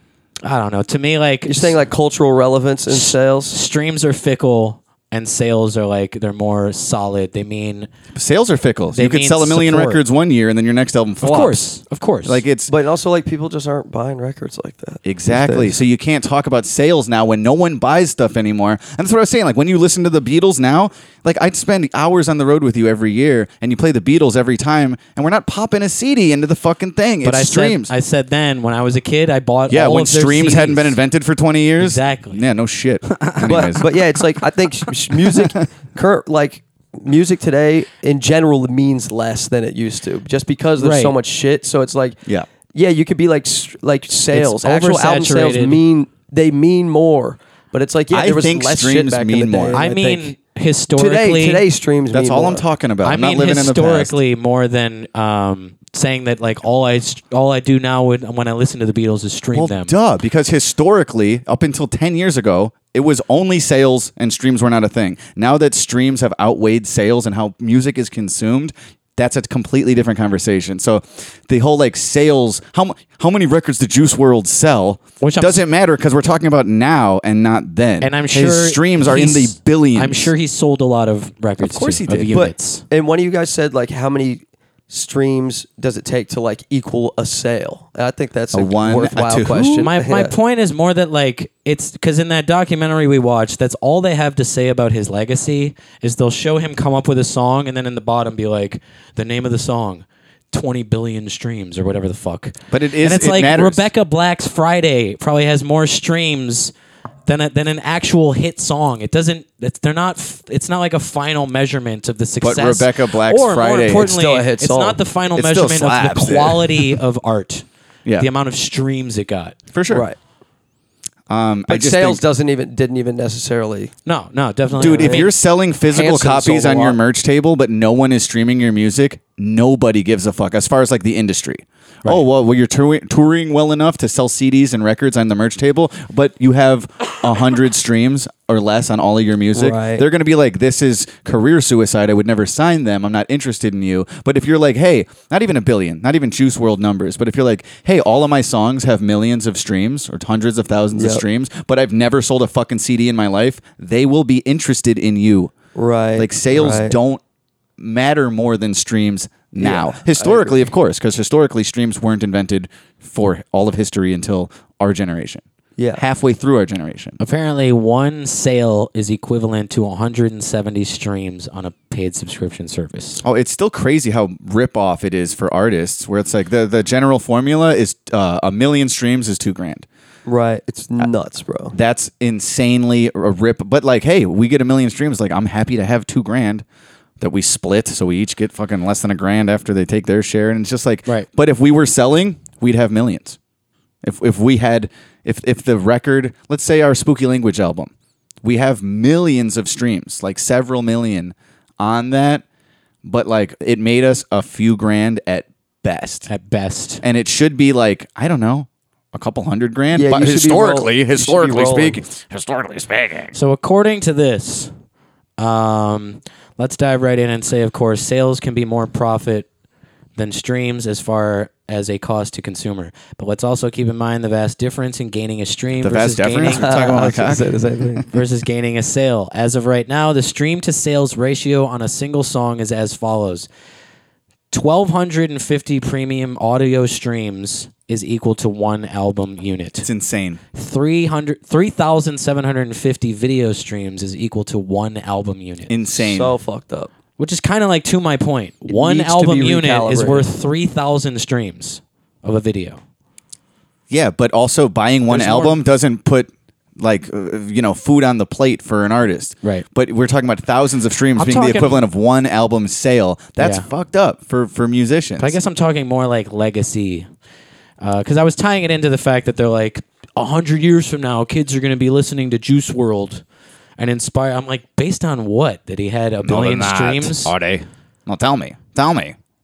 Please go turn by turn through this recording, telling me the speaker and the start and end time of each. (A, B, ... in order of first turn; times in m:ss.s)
0:00.4-0:01.8 A
0:01.5-0:03.6 B
0:02.9-0:07.9 A
0:08.1-0:11.6 C
0:08.9-0:10.0 A
0:11.2-0:12.4 A
0:12.2-0:12.7 C
0:12.7-0:15.8 B
0:15.0-0:27.9 C
0:27.2-0:31.0 A
0:29.7-0:33.8 C
0:31.8-0:32.4 A
0:33.1-0:33.4 A
0:33.5-0:42.2 B
0:40.8-0:41.2 A
0:42.7-0:50.3 B
0:44.3-0:45.8 A
0:48.1-0:49.8 C
0:49.7-0:51.6 A
0:51.0-0:52.6 B
0:52.1-0:54.2 C
0:53.0-0:59.9 A
0:59.5-1:20.3 C
1:15.2-1:15.6 A
1:18.0-1:22.8 A
1:21.6-1:22.5 C
1:22.3-1:30.3 B
1:28.5-1:29.9 C
1:29.8-1:46.7 A
1:42.7-1:43.9 C
1:47.3-1:57.6 A
1:52.4-1:54.2 C
1:54.0-1:55.0 B
1:55.3-1:57.0 C
1:58.2-1:59.6 A
1:59.7-2:00.1 C
1:59.9-2:00.2 B
2:01.3-2:02.2 C
2:01.7-2:03.9 B
2:04.1-2:05.3 A
2:04.8-2:35.5 C
2:04.8-2:05.3 B
2:05.9-2:07.0 B
2:19.5-2:20.1 B
2:31.0-2:31.2 B
2:35.8-2:37.0 B
2:36.2-2:37.2 C
2:37.8-2:45.4 C
2:39.6-2:40.7 B
2:45.8-2:46.0 B
2:46.0-2:47.2 C
2:47.2-2:53.2 A
2:53.2-2:59.9 C
3:00.3-3:01.7 B
3:01.7-3:06.6 C
3:07.2-3:13.4 C
3:14.0-3:17.9 C
3:18.4-3:22.4 C
3:23.0-3:26.3 C
3:26.3-3:27.0 A
3:27.0-3:33.3 C
3:29.9-3:32.0 B
3:33.3-3:34.7 A
3:35.4-3:39.5 A
3:40.2-3:46.8 A
3:45.8-3:48.0 C
3:46.5-3:48.0 B
3:48.1-3:53.5 A
3:54.5-3:59.9 A
3:59.8-4:00.4 C
4:00.6-4:05.7 A
4:05.7-4:06.3 C
4:06.0-4:06.9 B
4:07.2-4:12.8 A
4:08.7-4:10.3 B
4:13.9-4:25.4 C
4:15.1-4:15.6 A
4:21.2-4:21.8 A
4:23.4-4:23.7 A
4:25.2-4:27.1 A
4:27.8-4:33.2 A
4:33.8-4:37.3 A
4:36.2-4:39.2 C